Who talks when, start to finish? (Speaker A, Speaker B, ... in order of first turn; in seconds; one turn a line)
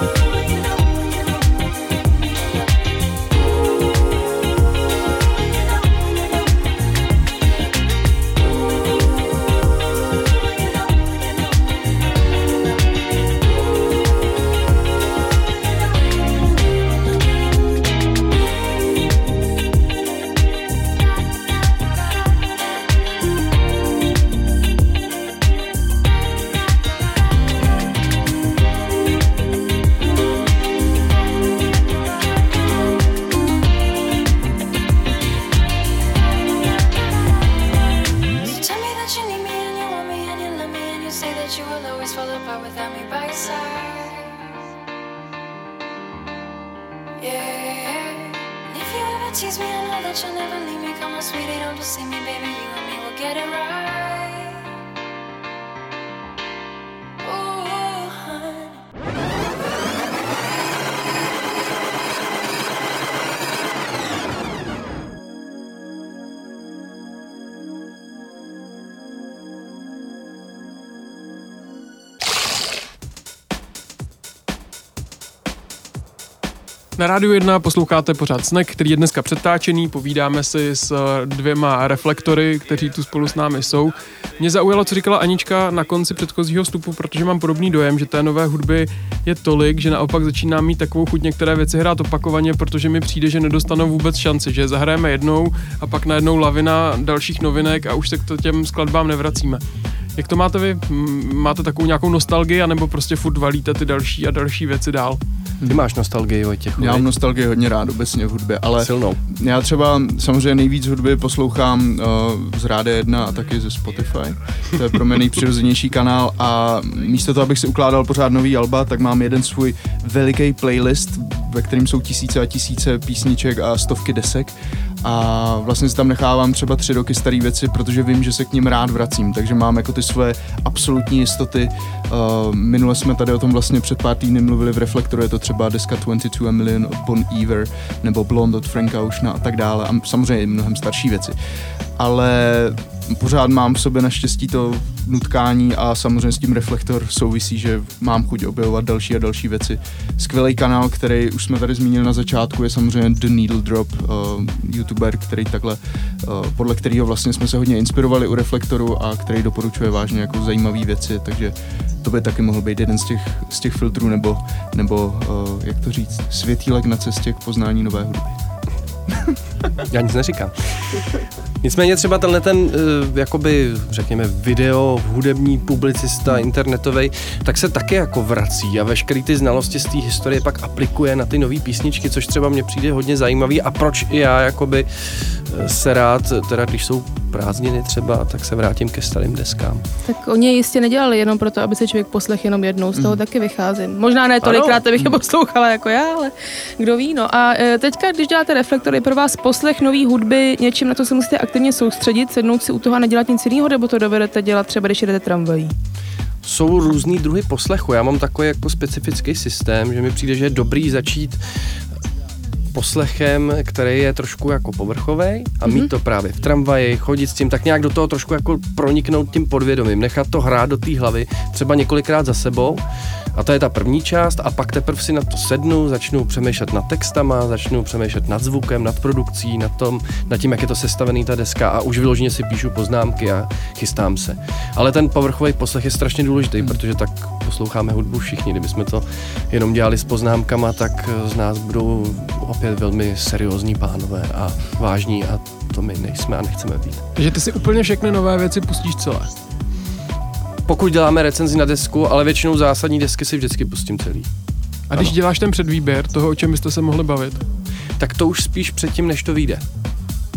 Speaker A: 0.3-1.2
Speaker A: 38.4-44.3
Speaker A: 47.2-54.6
Speaker A: 57.2-58.8
Speaker B: 77.0-99.6
Speaker B: 100.2-105.2
Speaker C: 105.6-105.8
Speaker D: 105.7-107.1
Speaker C: 106.8-141.3
Speaker D: 108.8-109.2
Speaker C: 142.0-168.4
Speaker C: 169.1-169.4
Speaker D: 169.9-171.1
Speaker D: 171.6-189.8
Speaker E: 190.1-205.7
Speaker C: 192.9-193.2
Speaker D: 194.4-194.8
Speaker D: 206.4-211.4
Speaker D: 212.7-222.8
Speaker D: 223.3-247.0
Speaker B: 247.2-249.3
Speaker D: 250.7-254.3
Speaker B: 254.9-257.4
Speaker D: 258.0-259.6